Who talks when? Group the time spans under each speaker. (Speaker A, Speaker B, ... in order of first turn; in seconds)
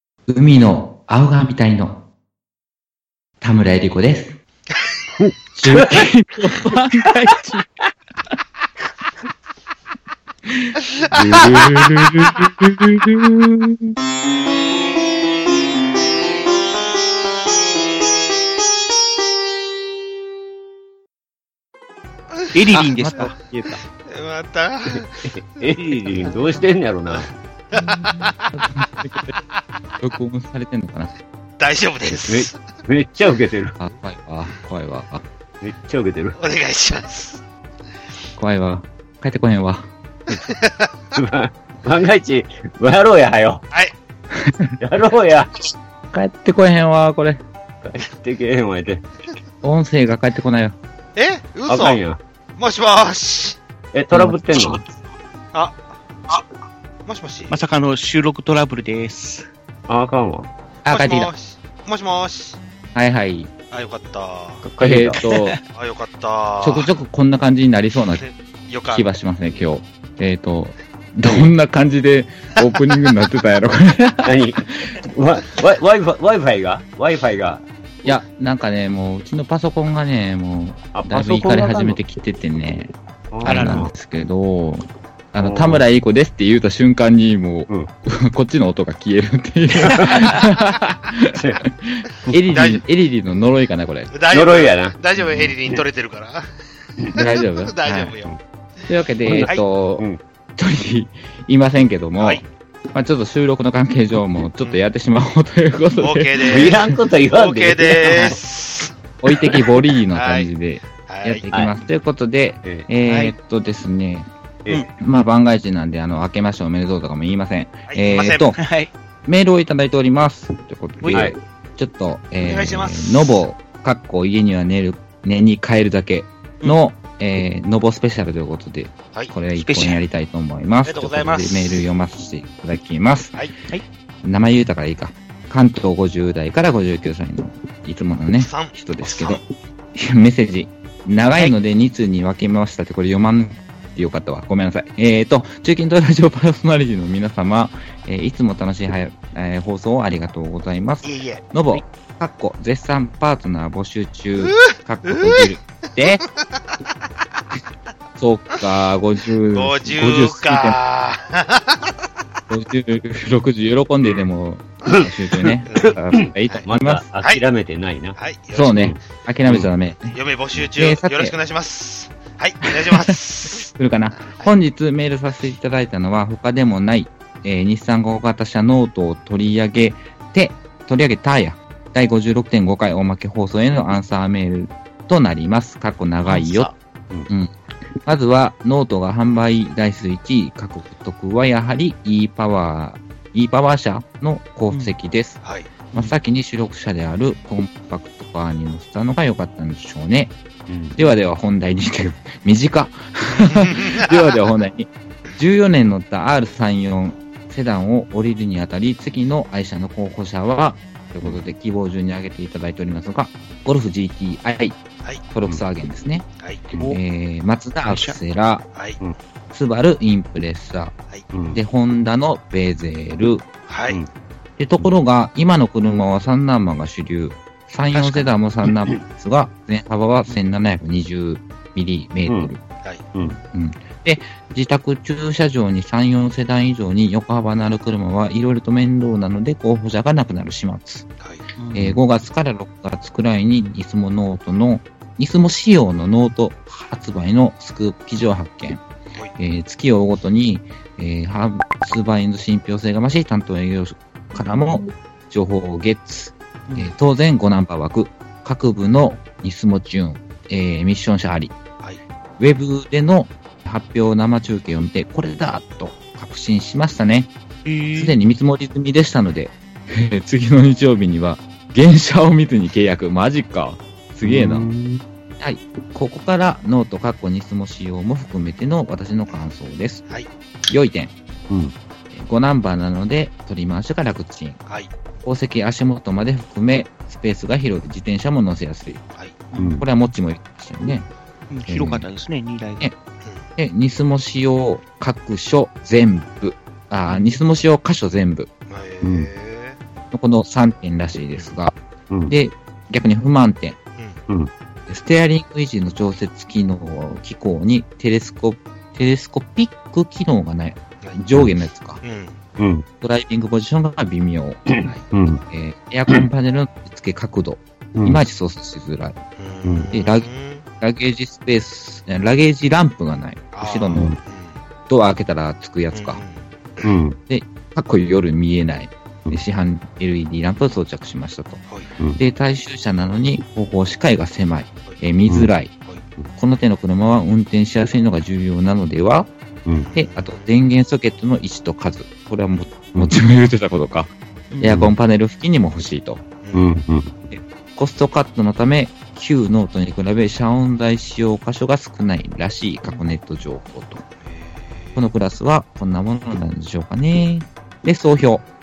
Speaker A: 0.3-2.0, 3.4-4.4, 5.6-7.6, 10.5-10.8, 11.3-13.9, 23.0-23.8, 27.8-29.4, 30.0-31.1, 33.8-35.2, 38.4-39.9, 44.3-44.8, 46.1-47.4, 49.6-50.8, 54.1-54.9, 60.8-61.3, 63.0-63.5, 64.8-65.6, 66.6-68.2, 68.9-74.9, 78.0-94.1, 97.1-98.1, 98.9-106.9, 109.2-114.3, 115.0-118.6, 119.3-133.4, 134.2-139.4, 139.9-156.2, 158.2-160.8, 162.5-167.0, 168.5-170.2, 170.8-171.3, 172.8-186.7, 188.0-195.4, 195.9-200.4, 200.9-214.8, 215.3-216.2, 216.8-218.6, 219.5-220.9, 221.5-223.5, 224.6-232.6, 233.5-241.1, 241.7-248.8, 249.4-261.6, 262.4-267.3, 267.9-274.7, 275.4-280.0, 280.7-281.1, 282.1-284.6, 285.2-289.0, 289.8-291.1, 291.7-292.1, 293.6-298.5, 300.1-301.8, 302.3-303.8, 304.9-312.0, 313.0-319.2, 319.9-320.3, 320.8-324.1, 324.9-326.2, 327.3-331.6, 332.2-335.7, 336.4-339.3, 339.9-344.1, 344.6-346.2, 347.3-354.0, 354.9-358.5
Speaker B: 5.2-6.1, 11.1-12.1, 24.9-27.3, 32.2-33.8, 35.6-36.4, 41.1-43.6, 44.8-45.5, 47.8-49.0, 51.7-52.2, 53.9-54.8, 59.9-60.5, 64.6-65.2, 71.2-71.5, 74.2-78.2, 80.9-82.0, 83.3-83.9, 85.4-85.8, 89.8-90.4, 91.3-91.6, 94.3-95.8, 99.3-100.2, 106.5-108.4, 164.9-168.2, 168.8-169.7, 200.7-201.0, 221.3-221.6, 233.1-233.4, 274.2-275.0, 289.6-289.9, 299.0-299.3, 312.6-312.9, 314.7-315.4, 317.9-318.2, 319.6-319.9, 326.8-327.2, 344.7-344.9, 346.5-347.1
Speaker C: 11.1-11.5, 22.5-23.0, 24.0-25.3, 27.1-28.5, 31.6-32.6, 36.4-37.4, 40.3-40.9, 51.2-52.0, 52.6-53.6, 55.5-56.4, 57.0-57.6, 60.9-62.6, 63.7-64.7, 65.7-66.9, 68.2-69.1, 92.5-92.8, 94.1-96.5, 97.6-98.3, 106.0-108.9, 110.1-111.5, 117.9-118.6, 122.4-123.4, 130.8-131.8, 138.4-139.4, 151.0-151.4, 154.4-156.0, 159.5-161.9, 165.7-166.7, 168.2-169.0, 170.0-173.7, 195.4-195.7, 203.3-204.4, 223.7-224.0, 298.7-299.8, 312.0-312.4, 319.4-320.6, 323.5-324.6, 325.9-326.9, 339.8-340.5, 346.4-346.7, 354.2-355.1
Speaker D: 22.5-23.3, 25.8-26.3, 57.5-59.5, 65.2-65.6, 83.5-83.9, 113.1-113.3, 118.6-118.9, 121.0-121.3, 129.6-130.0, 186.2-186.7, 217.9-218.2, 227.9-228.3, 241.6-241.9, 256.7-256.9, 267.6-268.2, 289.5-289.9, 291.5-292.8, 297.1-297.4, 344.5-344.8